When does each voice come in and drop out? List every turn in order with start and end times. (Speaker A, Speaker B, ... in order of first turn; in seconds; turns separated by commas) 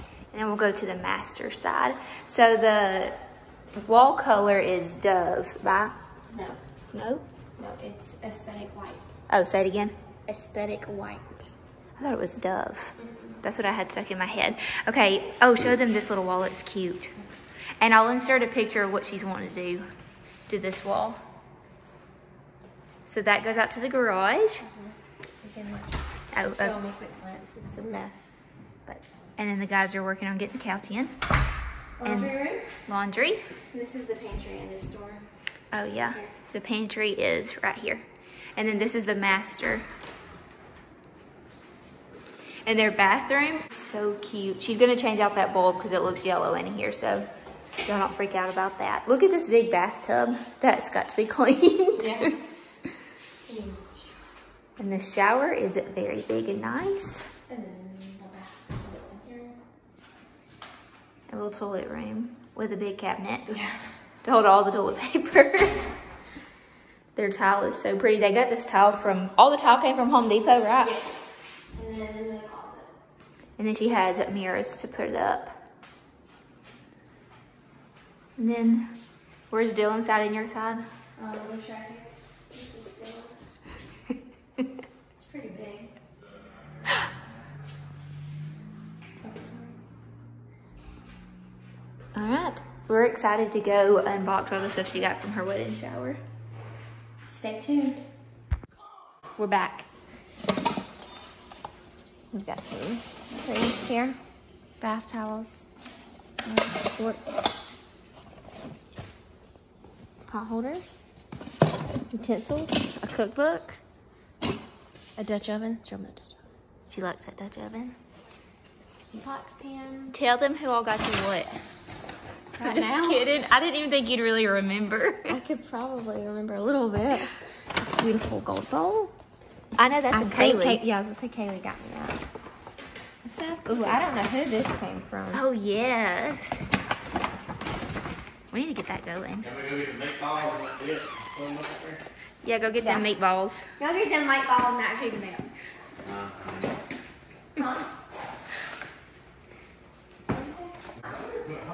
Speaker A: 0.3-3.2, Speaker A: 3.8-6.0, Speaker B: 6.3-6.6, Speaker A: 6.9-7.3, Speaker B: 7.6-9.1, Speaker A: 9.3-9.9, Speaker B: 10.3-11.5, Speaker A: 12.0-17.1, Speaker B: 13.0-13.4, Speaker A: 17.8-19.9, Speaker A: 20.5-21.2, Speaker A: 23.1-24.6, Speaker B: 24.6-29.1, Speaker A: 26.3-26.8, Speaker A: 29.4-31.2, Speaker B: 32.0-32.8, Speaker A: 32.0-33.4, Speaker B: 33.7-35.3, Speaker A: 35.7-38.0, Speaker A: 38.6-39.9, Speaker A: 42.7-47.3, Speaker A: 47.9-52.2, Speaker B: 52.0-52.4, Speaker B: 53.5-54.2, Speaker A: 54.8-57.3, Speaker B: 57.5-59.6, Speaker A: 61.3-63.6, Speaker B: 63.5-63.9, Speaker A: 64.2-65.8, Speaker A: 67.2-71.0, Speaker B: 70.8-72.9, Speaker A: 73.6-75.5, Speaker A: 78.4-78.9, Speaker A: 79.5-80.8, Speaker B: 81.2-83.5, Speaker B: 85.1-85.9, Speaker B: 89.2-89.8, Speaker A: 92.2-96.2, Speaker B: 97.2-98.1, Speaker B: 99.4-99.9, Speaker B: 102.3-104.2, Speaker B: 104.8-105.7, Speaker B: 106.5-107.5, Speaker B: 110.3-111.0, Speaker B: 112.1-113.8, Speaker B: 115.2-116.4, Speaker A: 116.9-118.0, Speaker B: 119.1-120.2, Speaker A: 120.1-121.5, Speaker B: 122.5-123.3, Speaker A: 122.6-125.3, Speaker B: 125.3-129.1, Speaker A: 129.8-130.8, Speaker B: 130.1-132.2, Speaker B: 133.2-135.4, Speaker A: 133.7-134.0, Speaker A: 135.3-136.8, Speaker A: 138.5-139.5, Speaker C: 139.6-142.0, Speaker A: 142.4-143.7, Speaker B: 142.8-143.1, Speaker B: 143.8-145.5, Speaker B: 147.6-147.9, Speaker B: 150.3-151.3